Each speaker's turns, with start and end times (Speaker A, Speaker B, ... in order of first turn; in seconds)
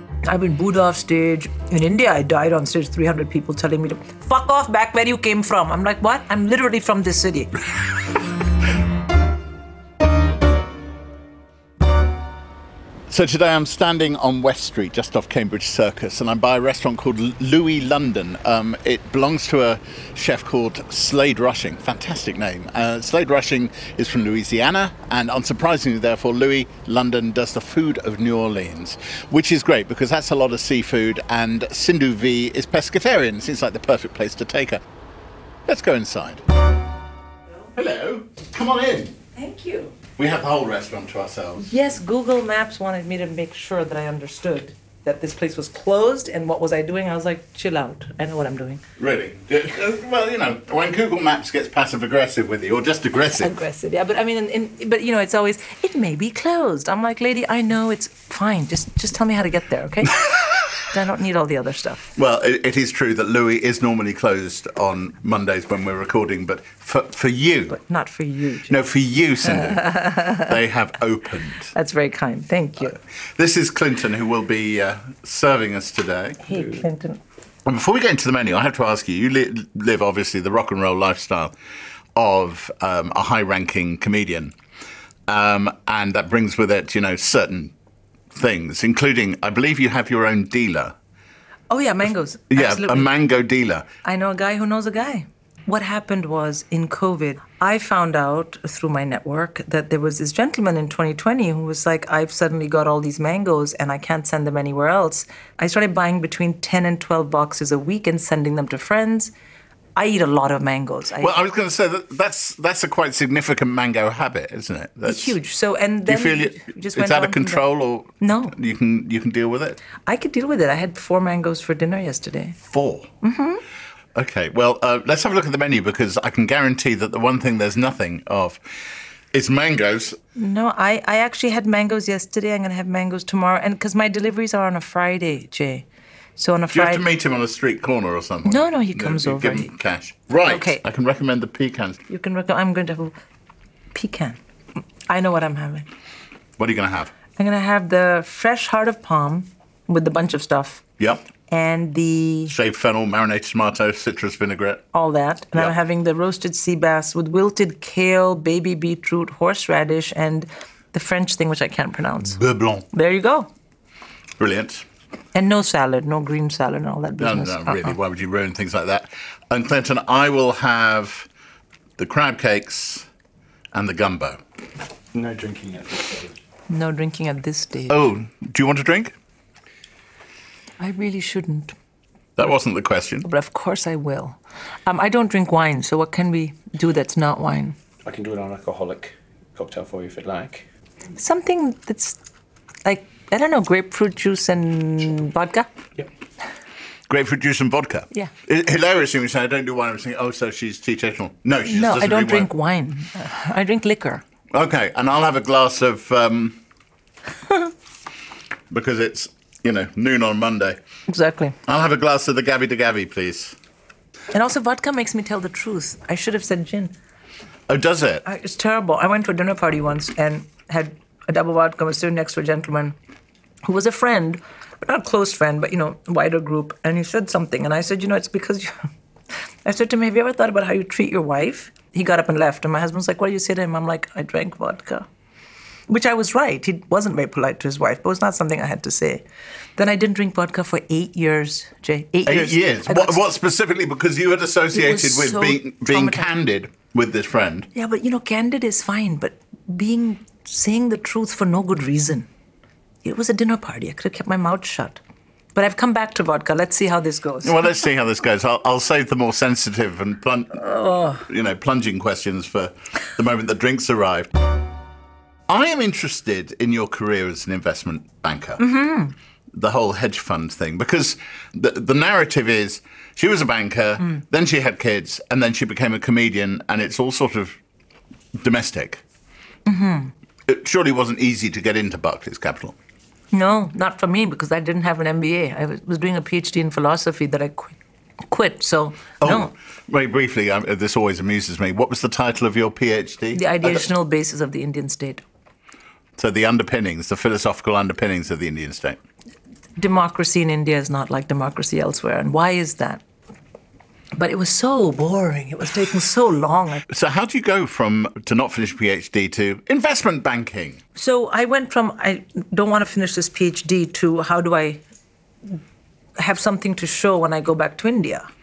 Speaker A: 0.2-7.5, 39.4-40.0, 41.6-48.8, 53.4-60.2, 60.9-62.1, 67.7-68.8, 69.6-70.5, 71.7-73.0, 76.4-77.2, 91.7-93.1, 94.0-109.3, 110.0-111.4, 115.0-117.7, 118.2-118.5, 120.1-122.6, 123.2-123.6, 130.4-135.8, 136.4-137.1, 138.4-139.7, 140.4-140.8, 142.1-143.2, 143.9-144.4, 145.1-145.9, 147.4-150.8, 151.5-152.6, 154.9-162.4, 162.9-163.5, 165.3-168.0, 176.7-178.0, 180.8-181.8, 183.2-187.8, 191.2-192.2, 192.8-195.7, 201.7-204.2, 211.1-211.6, 214.3-216.9, 218.2-223.0, 223.7-228.7, 229.7-235.1, 235.9-239.2, 239.8-243.2, 244.7-246.3, 247.7-252.3, 253.0-255.0, 255.6-257.6, 260.6-261.2, 268.6-269.1, 279.7-280.1, 283.3-287.8, 288.3-289.5, 293.3-295.2, 299.8-303.0, 304.1-306.9, 310.9-314.8, 316.2-318.3
Speaker B: 13.1-34.8, 35.7-36.5, 37.8-39.2, 40.2-41.7, 49.0-53.5, 60.0-60.7, 62.2-67.8, 68.7-71.7, 72.9-76.4, 77.7-81.5, 82.2-84.5, 85.3-87.7, 88.3-91.0, 92.5-93.9, 111.2-115.4, 116.1-119.8, 122.7-123.1, 124.2-128.8, 129.3-130.2, 136.7-142.0, 146.6-147.1, 151.0-151.2, 152.5-154.8, 162.2-162.9, 164.4-164.9, 167.2-171.3, 172.0-173.1, 173.7-174.4, 177.9-179.2, 182.4-183.3, 197.1-202.5, 204.5-206.6, 208.7-210.8, 211.7-213.6, 217.7-218.2, 242.3-247.7, 257.4-260.6, 261.2-264.3, 265.5-268.6, 269.5-277.6, 278.4-279.0, 280.5-282.8, 289.2-293.9, 296.2-299.0, 306.9-310.8
Speaker C: 175.1-176.4, 188.1-190.7